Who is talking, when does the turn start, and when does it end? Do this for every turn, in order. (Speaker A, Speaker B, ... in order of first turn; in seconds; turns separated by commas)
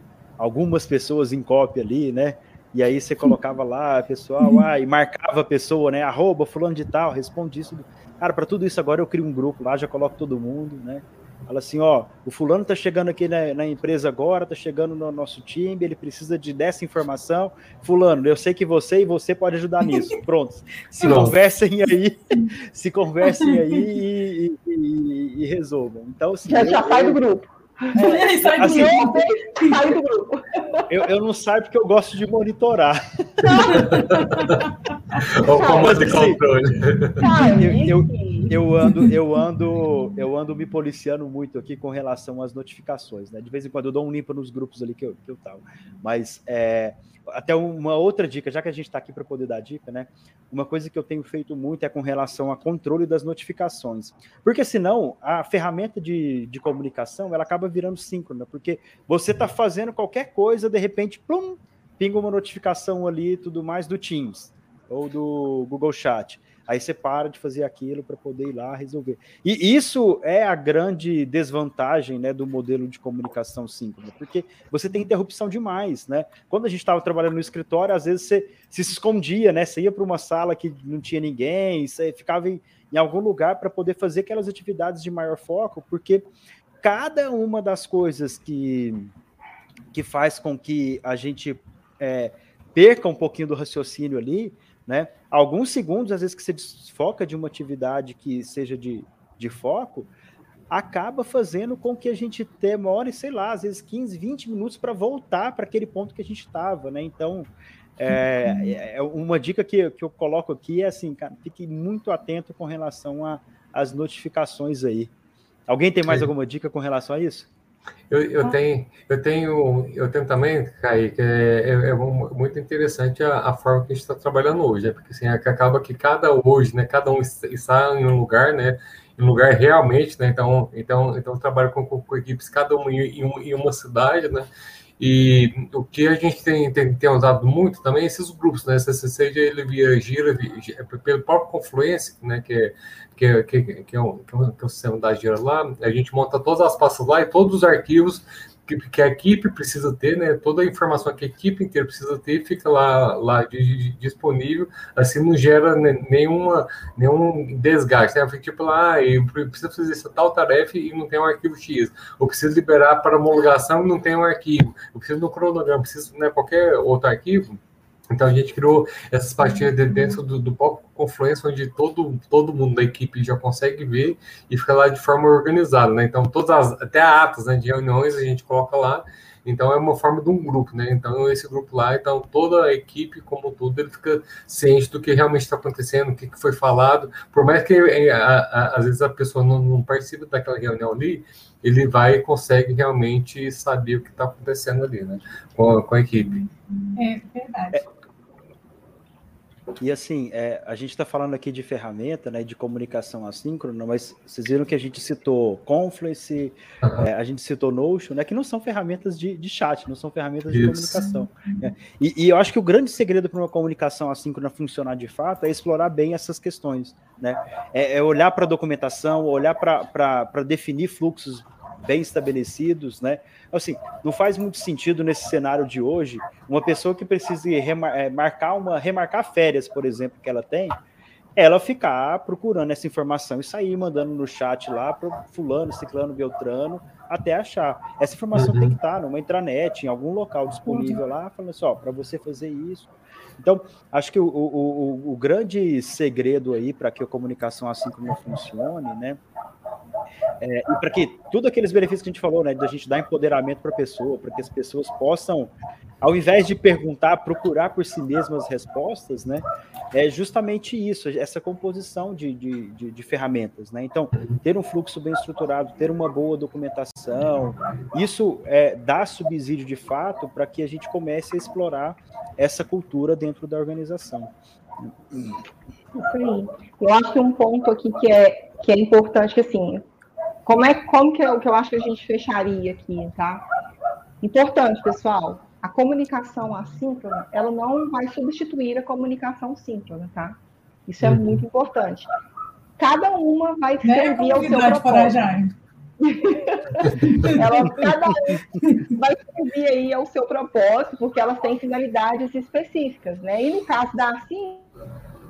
Speaker A: 0.4-27.2, Speaker B: 20.9-21.3, Speaker C: 21.0-21.3, Speaker B: 23.2-23.8, Speaker D: 26.4-30.9, Speaker A: 27.9-29.1, Speaker B: 28.0-29.8, Speaker A: 30.9-33.8, Speaker D: 33.4-33.9, Speaker B: 33.7-35.2, Speaker C: 35.3-37.3, Speaker D: 35.6-36.0, Speaker A: 35.6-36.4, Speaker D: 37.2-38.5, Speaker A: 37.4-86.3, Speaker A: 86.8-89.1, Speaker A: 89.9-100.1, Speaker A: 100.7-115.1, Speaker A: 115.7-117.5, Speaker C: 118.1-134.5, Speaker C: 135.0-167.6, Speaker C: 168.1-196.4, Speaker B: 169.4-170.1, Speaker B: 196.9-197.8, Speaker A: 199.8-230.8, Speaker C: 210.5-211.1, Speaker A: 231.3-249.2, Speaker C: 238.3-238.8, Speaker B: 240.7-241.0, Speaker A: 250.4-275.4, Speaker D: 275.9-279.8, Speaker D: 280.4-283.4, Speaker D: 284.2-292.1, Speaker C: 291.0-291.4, Speaker D: 292.8-295.2, Speaker B: 293.8-295.5, Speaker D: 296.0-304.7, Speaker B: 296.9-297.4, Speaker B: 298.6-298.9